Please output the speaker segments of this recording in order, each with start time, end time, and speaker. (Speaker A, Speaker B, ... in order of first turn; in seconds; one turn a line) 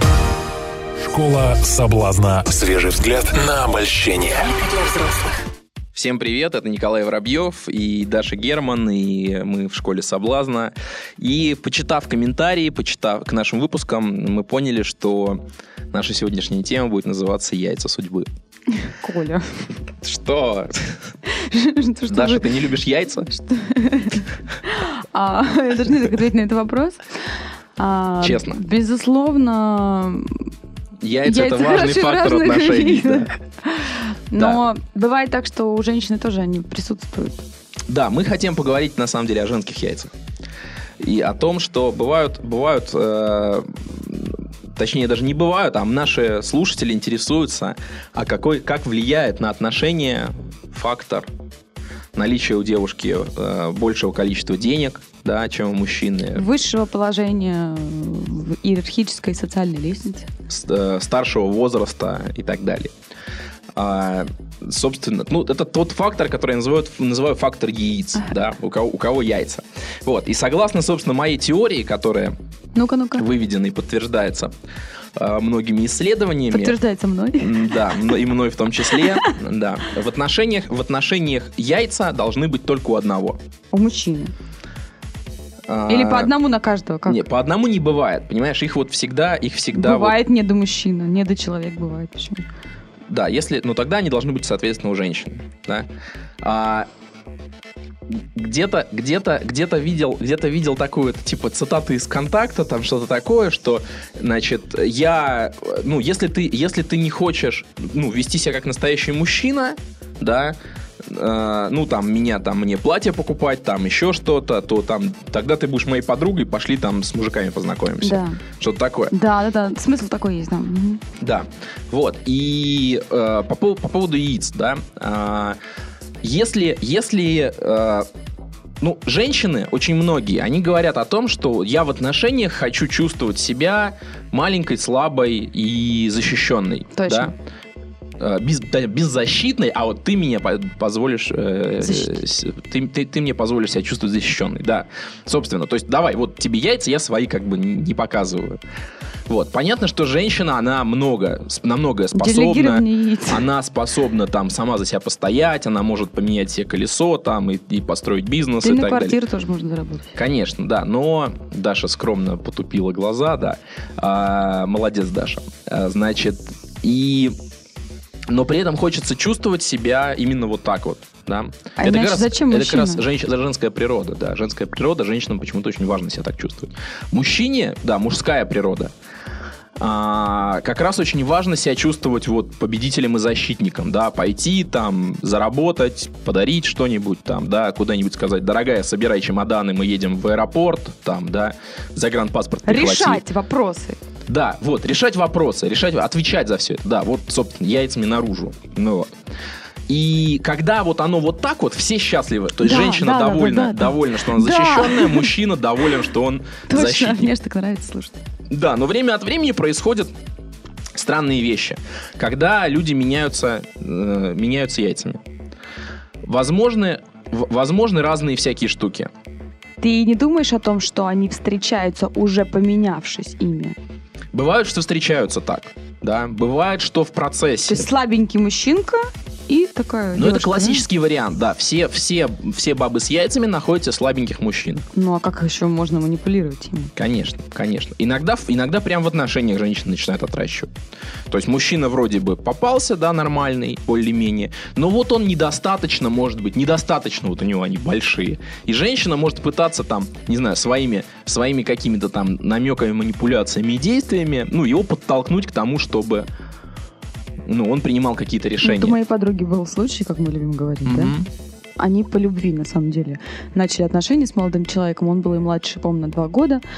Speaker A: 1.0-5.3
Speaker B: 5.9-18.3
Speaker C: 18.8-19.7
Speaker B: 20.0-21.1
Speaker C: 21.3-22.5
Speaker B: 22.1-23.3
Speaker C: 23.3-30.5
Speaker B: 28.2-28.6
Speaker B: 31.0-33.3
Speaker C: 31.2-37.5
Speaker B: 37.9-40.1
Speaker B: 41.0-51.3
Speaker B: 52.1-56.5
Speaker C: 56.3-60.3
Speaker B: 60.5-62.9
Speaker B: 63.7-72.3
Speaker C: 72.7-73.2
Speaker B: 73.2-74.5
Speaker B: 75.1-76.8
Speaker C: 76.5-78.1
Speaker B: 77.4-83.4
Speaker C: 83.7-84.3
Speaker B: 85.7-86.3
Speaker C: 85.9-87.2
Speaker B: 87.0-90.2
Speaker C: 89.7-92.4
Speaker B: 93.1-95.9
Speaker B: 96.4-96.9
Speaker B: 98.1-119.1
Speaker C: 118.0-118.4
Speaker C: 119.1-121.0
Speaker B: 121.2-125.6
Speaker B: 126.2-128.1
Speaker B: 128.8-137.3
Speaker C: 136.9-137.3
Speaker B: 138.2-148.6
Speaker C: 141.8-142.1
Speaker B: 149.3-159.2
Speaker C: 152.1-153.4
Speaker C: 158.6-160.2
Speaker B: 160.2-167.3
Speaker B: 168.3-178.9
Speaker C: 171.8-173.0
Speaker B: 179.8-193.2
Speaker C: 192.7-194.0
Speaker B: 194.3-199.1
Speaker B: 199.9-207.3
Speaker C: 202.6-205.3
Speaker C: 206.7-208.2
Speaker B: 208.5-210.1
Speaker B: 210.9-215.2
Speaker B: 216.2-219.1
Speaker C: 219.8-223.8
Speaker B: 224.3-227.9
Speaker C: 227.7-230.8
Speaker B: 230.1-234.9
Speaker C: 234.9-236.9
Speaker B: 237.0-240.7
Speaker B: 241.3-256.3
Speaker B: 257.4-259.0
Speaker C: 258.6-261.1
Speaker B: 260.8-261.3
Speaker C: 261.8-266.6